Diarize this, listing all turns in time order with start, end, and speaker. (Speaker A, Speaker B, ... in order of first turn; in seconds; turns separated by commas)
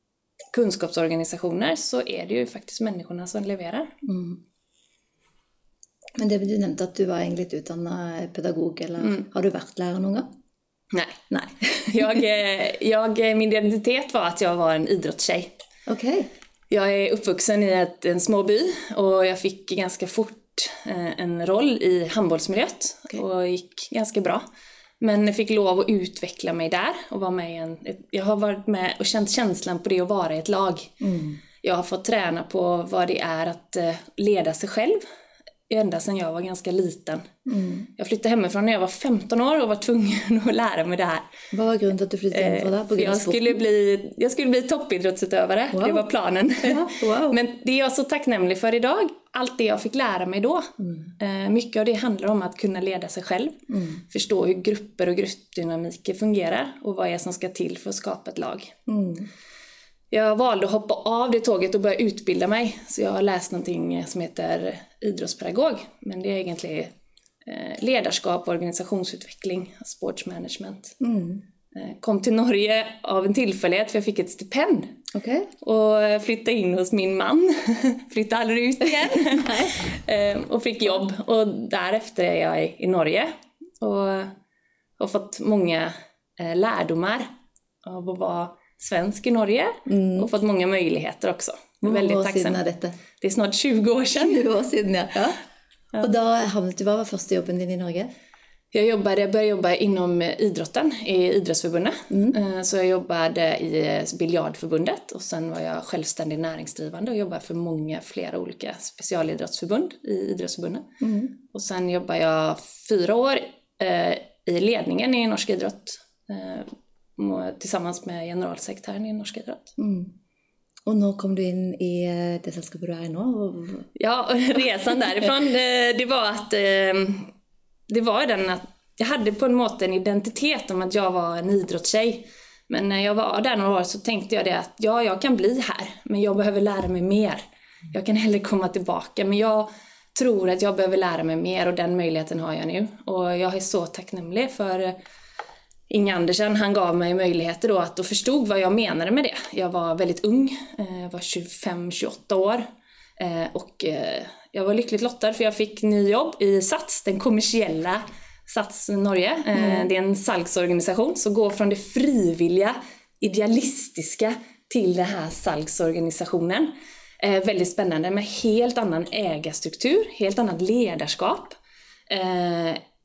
Speaker A: 0.5-3.9, Speaker B: 4.0-4.4, Speaker B: 6.2-10.3, Speaker A: 9.0-9.2, Speaker A: 10.9-11.3, Speaker B: 11.3-12.2, Speaker A: 11.8-15.5, Speaker B: 15.9-16.3, Speaker A: 16.7-24.4, Speaker A: 25.0-31.0, Speaker B: 31.0-31.4, Speaker A: 31.6-35.0, Speaker A: 35.7-37.3, Speaker B: 37.5-37.9, Speaker A: 38.0-41.2, Speaker B: 41.5-43.5, Speaker A: 42.3-58.7, Speaker B: 45.7-46.0, Speaker B: 46.6-47.4, Speaker B: 50.8-51.1, Speaker B: 53.7-54.0, Speaker B: 58.9-59.3, Speaker A: 60.1-66.9, Speaker A: 67.4-70.9, Speaker B: 71.0-71.4, Speaker A: 71.7-75.0, Speaker B: 75.1-75.5, Speaker A: 75.6-84.3, Speaker B: 79.2-79.9, Speaker A: 85.0-87.3, Speaker A: 87.8-92.6, Speaker B: 89.8-90.3, Speaker B: 91.8-93.0, Speaker A: 93.2-94.4, Speaker B: 94.1-95.4, Speaker B: 96.0-98.1, Speaker A: 98.7-110.9, Speaker B: 102.1-102.4, Speaker B: 111.0-111.3, Speaker A: 111.5-119.7, Speaker B: 119.8-120.1, Speaker B: 120.8-123.9, Speaker A: 124.0-127.3, Speaker A: 127.9-144.9, Speaker A: 145.9-152.7, Speaker A: 153.2-171.6, Speaker B: 159.5-159.9, Speaker A: 172.1-172.8